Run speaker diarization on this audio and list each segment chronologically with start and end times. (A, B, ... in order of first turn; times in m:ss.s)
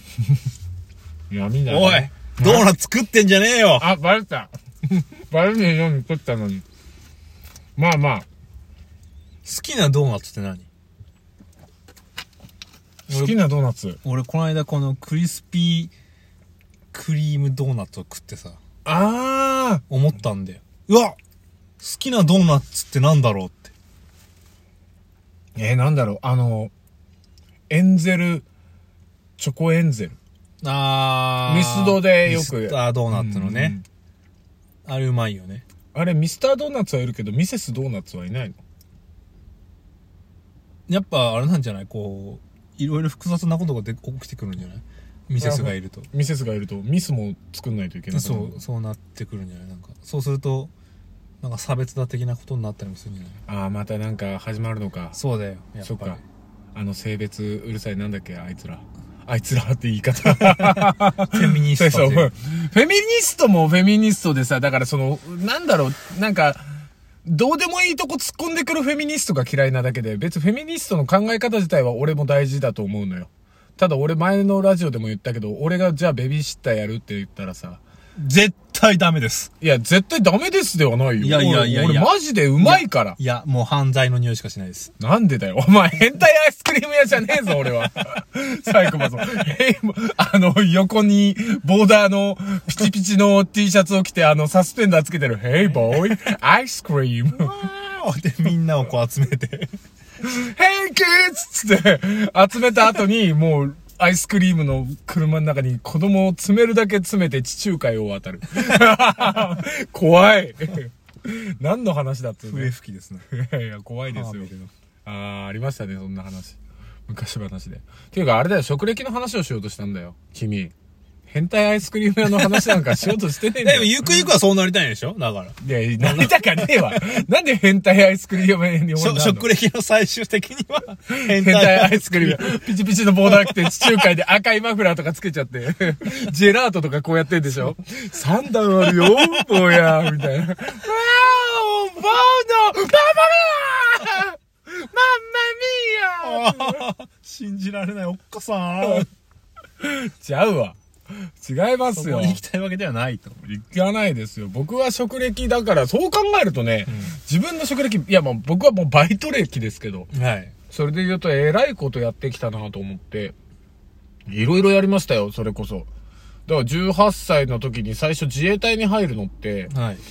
0:01.3-0:02.7 A
0:01.7-0:03.9 B
0:03.8-0:06.6 A
0:07.8-0:08.2 A
0:09.4-0:10.7 B
0:13.1-0:14.0 A
0:13.1-0:13.4 B
0:14.0-0:15.9 B
0:16.9-0:18.6 B
0:18.8-0:19.8 A
0:19.9-0:21.2 B
0:21.8-0:23.7 B
0:25.6-0:26.7 A
0:27.7-0:28.4 A
0:29.4-0:30.2 A
0:30.6-0:33.8 B
0:31.4-0:33.8 A
0:34.8-0:35.6 B
0:35.9-0:38.6 A
0:40.9-0:46.1 B
0:45.4-0:48.6 A
0:48.1-0:50.7 B
0:51.4-0:53.4 B
0:53.5-0:55.2 A
0:55.1-0:56.2 B
0:55.8-0:56.2 A
0:56.7-1:06.6 A
1:00.6-1:02.3 B
1:07.2-1:17.8 A
1:18.2-1:19.5 B
1:19.6-1:23.2 A
1:21.2-1:24.9 B
1:25.0-1:37.5 A
1:37.3-1:39.7 B
1:40.2-1:52.7 A
1:52.4-1:53.2 B
1:53.3-1:54.5 A
1:54.1-1:54.7 B
1:55.0-2:00.7 A
2:01.3-2:04.0 A
2:03.6-2:07.0 B
2:05.6-2:09.5 A
2:09.0-2:12.7 B
2:11.3-2:26.9 A
2:26.2-2:29.1 B
2:29.8-2:32.4 A
2:31.9-2:33.4 B
2:33.4-2:40.1 A
2:36.9-2:37.1 B
2:40.1-2:40.5 B
2:40.7-2:43.3 A
2:44.3-2:45.9 A
2:46.5-2:49.7 A
2:49.7-2:50.0 B